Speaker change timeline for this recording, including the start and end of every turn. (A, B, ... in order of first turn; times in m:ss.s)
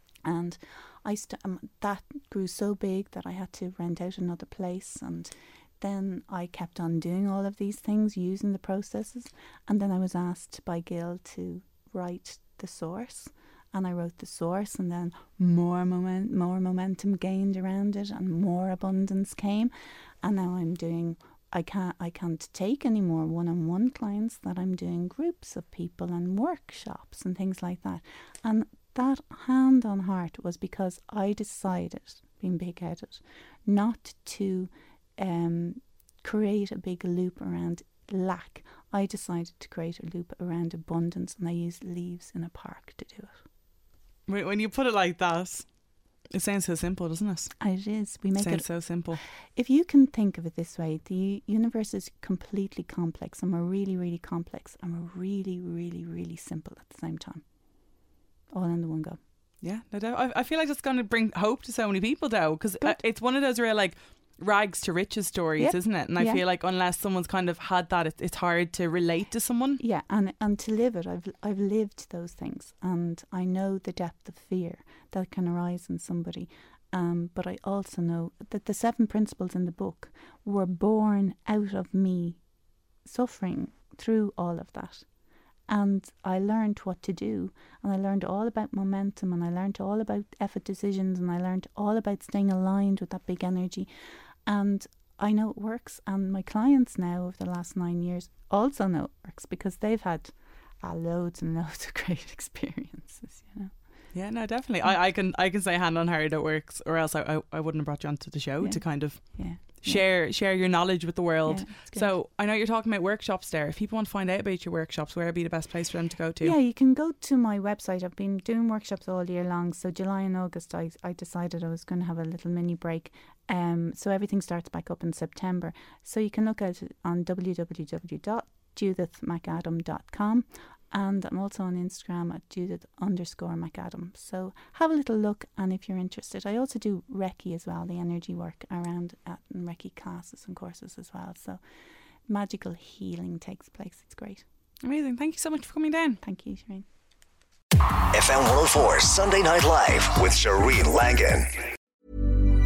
0:00.2-0:19.7 A
0:20.2-0:43.4 A
0:44.3-0:45.7 B
0:46.3-0:47.7 B
0:47.6-0:57.4 A
0:48.4-0:49.2 B
0:58.5-0:59.2 A
0:59.6-1:09.8 B
1:05.6-1:06.4 A
1:09.8-1:22.4 A
1:23.0-1:25.1 A
1:25.7-1:33.9 A
1:34.5-1:43.7 A
1:44.1-1:56.5 B
1:48.6-1:50.0 A
1:51.4-1:52.1 A
1:56.4-2:21.6 A
2:22.3-2:24.4 A
2:24.8-2:26.2 B
2:26.2-2:26.8 A
2:28.1-2:31.5 C